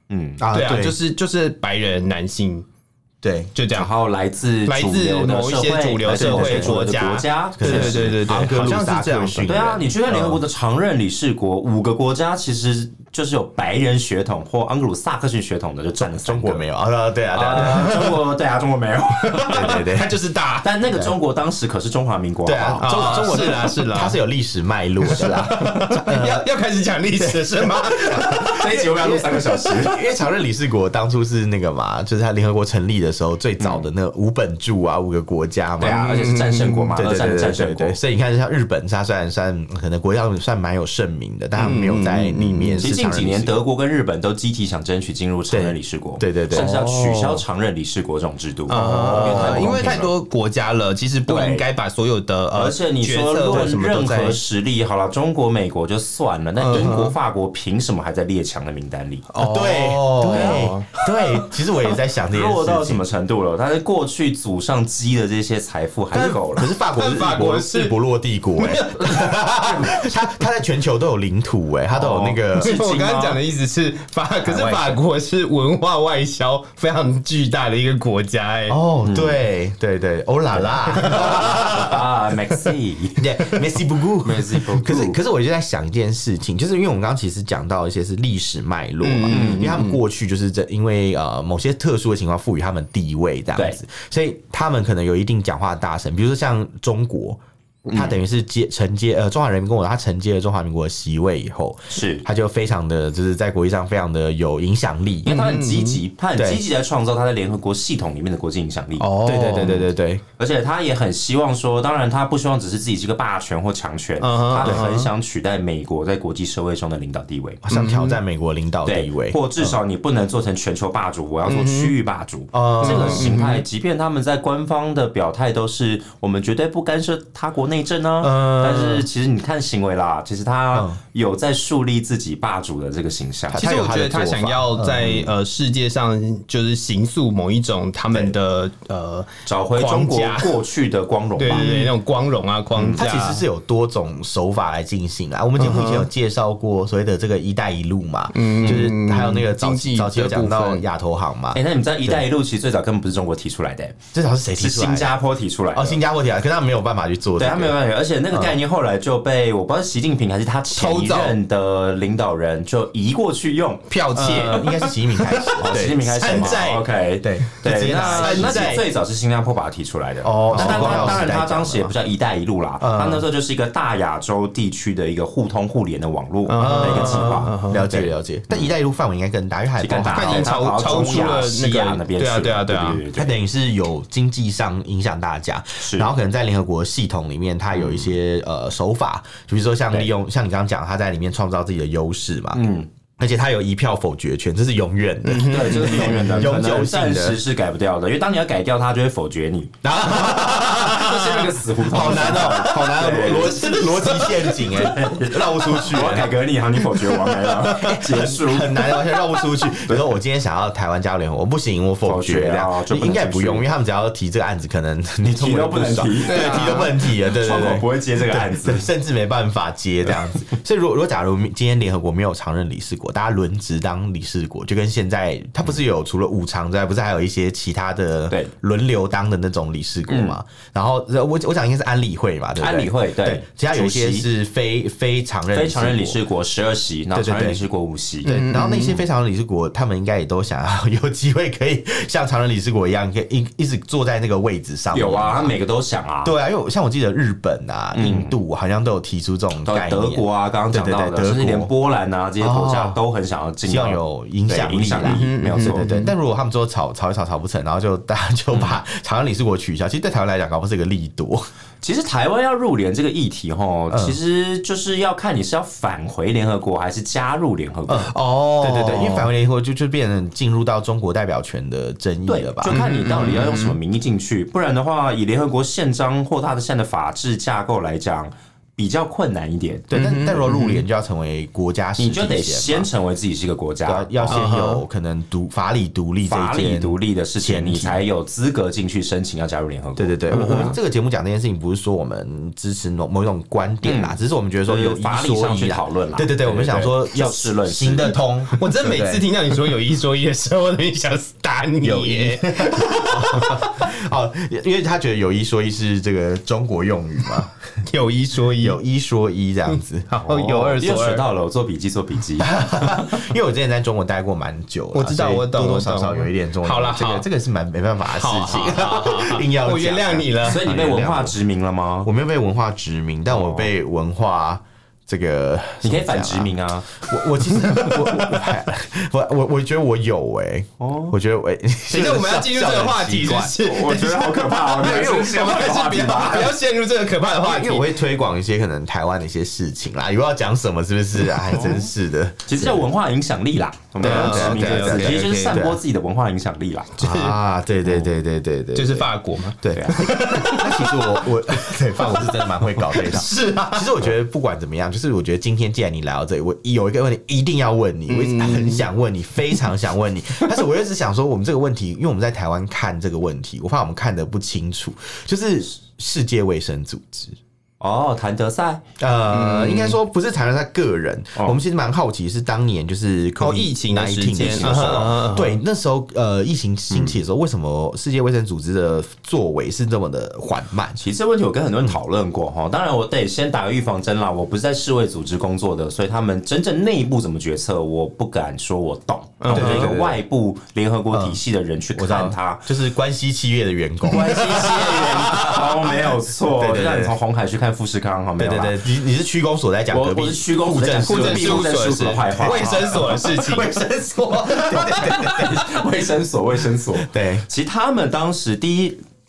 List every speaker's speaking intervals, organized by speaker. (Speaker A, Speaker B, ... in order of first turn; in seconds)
Speaker A: 0.1-0.4, 3.7-8.2, 9.5-16.6, 17.3-19.8, 20.6-22.9, 28.5-30.0, 33.6-33.9, 35.8-38.0, 42.8-50.1, 51.3-51.6, 52.5-59.2, 60.3-60.6, 62.3-66.7, 71.9-73.4, 74.5-75.0, 79.0-79.4, 80.9-83.2, 84.2-85.2, 89.3-89.7, 97.8-98.2, 101.9-102.2, 105.2-109.1, 110.4-117.6, 118.8-133.6, 139.5-141.8, 142.8-143.0, 151.5-154.0, 154.6-156.0, 157.4-163.9, 165.6-178.7, 179.8-183.3, 185.8-186.1, 187.7-188.1, 192.5-192.9, 195.5-203.7, 204.7-209.0, 209.8-210.1, 212.1-213.7, 215.2-218.9, 230.1-230.4, 232.6-234.3, 235.5-238.4, 244.9-246.3, 247.9-248.3, 249.6-255.9, 258.5-258.8, 261.8-268.1, 272.3-279.9, 282.0-284.4, 286.2-290.7, 293.8-298.2, 310.2-313.2, 320.4-322.1, 323.3-323.7, 325.8-326.9, 330.8-331.1, 333.6-336.6, 341.5-341.9, 342.5-347.0, 349.7-350.0, 367.8-368.8, 374.4-375.1, 381.0-392.7, 394.1-398.8, 399.9-403.3, 404.7-409.0
Speaker B: 0.4-1.0, 3.2-3.5, 6.1-6.8, 7.6-10.4, 16.0-18.1, 19.5-20.1, 22.4-26.4, 27.2-36.1, 37.0-43.6, 45.5-47.2, 48.8-50.1, 59.4-63.0, 66.1-72.8, 78.7-82.0, 83.2-97.4, 97.9-105.3, 106.4-106.6, 109.2-110.2, 114.6-115.1, 117.6-119.8, 122.5-123.4, 128.2-129.1, 130.7-131.0, 133.5-135.3, 141.5-141.9, 142.9-152.2, 154.1-155.1, 155.7-157.8, 158.3-158.6, 164.1-166.6, 167.2-168.8, 170.2-171.9, 172.8-173.2, 176.6-181.4, 183.1-192.6, 193.2-197.4, 199.8-206.4, 207.1-236.2, 237.1-237.6, 238.2-245.5, 246.2-251.7, 252.4-253.0, 253.6-261.5, 263.9-264.2, 267.9-272.8, 279.9-282.9, 283.9-288.0, 290.0-299.3, 301.8-307.6, 308.6-310.1, 312.4-321.4, 322.0-333.6, 337.4-342.9, 344.0-345.8, 347.0-367.4, 369.0-381.0, 389.5-390.2, 391.1-391.4, 391.9-397.1, 398.4-405.7, 407.0-407.5
Speaker C: 0.5-2.6, 3.5-3.9, 4.7-9.5, 17.6-18.2, 19.2-20.8, 22.8-24.2, 25.0-28.6, 35.8-37.0, 41.6-42.9, 46.5-47.3, 48.7-54.4, 56.6-57.1, 59.3-61.5, 66.8-68.0, 68.6-70.2, 72.5-78.8, 81.0-82.0, 89.0-90.0, 105.2-106.0, 109.0-109.9, 114.2-115.1, 117.7-118.2, 121.5-121.9, 122.8-123.6, 133.6-140.6, 141.4-143.4, 145.6-146.1, 148.3-150.8, 160.8-161.4, 163.9-166.8, 167.9-168.8, 170.5-171.2, 176.5-177.9, 180.1-183.0, 195.2-196.5, 202.0-204.9, 216.3-216.9, 238.2-239.0, 255.0-256.1, 268.1-269.3, 272.7-273.8, 279.9-280.8, 284.3-284.8, 290.3-290.8, 298.6-303.8, 307.9-308.8, 310.1-311.3, 314.9-317.2, 318.1-320.7, 327.5-328.5, 331.9-338.0, 344.0-345.6, 347.0-347.4, 348.8-354.0, 358.1-358.9, 369.3-370.0, 373.4-375.6, 389.4-390.0, 394.1-395.7, 401.0-405.5